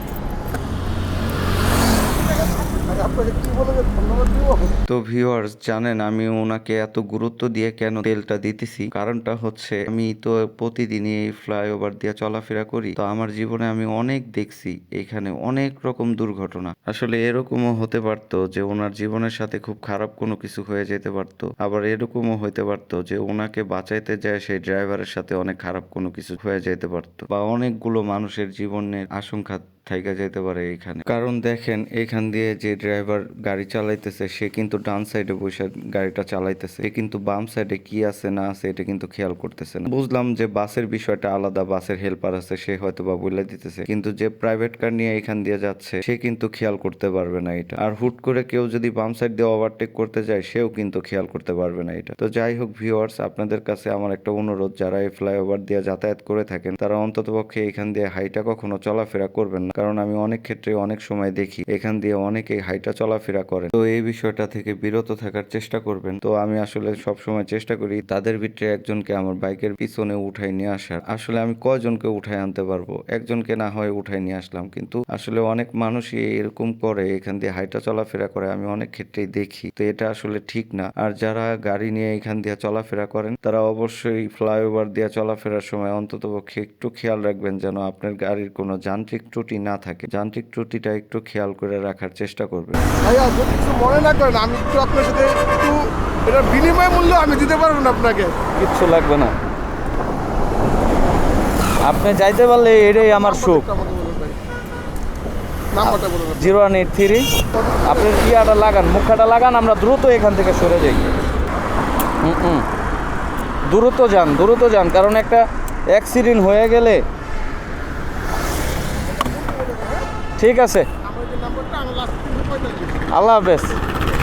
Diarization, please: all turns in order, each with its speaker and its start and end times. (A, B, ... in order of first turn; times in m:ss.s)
0:02.1-0:04.8 A
0:04.9-1:32.8 B
1:33.0-1:38.4 A
1:38.6-1:39.3 C
1:41.8-1:43.6 C
1:42.9-1:44.4 A
1:45.7-1:46.6 A
1:45.9-1:47.3 C
1:47.5-1:48.2 A
1:47.8-1:51.1 C
1:52.2-1:52.6 C
1:53.6-1:57.0 C
1:59.0-2:00.1 A
2:00.4-2:00.9 C
2:01.0-2:03.2 A
2:03.1-2:03.8 C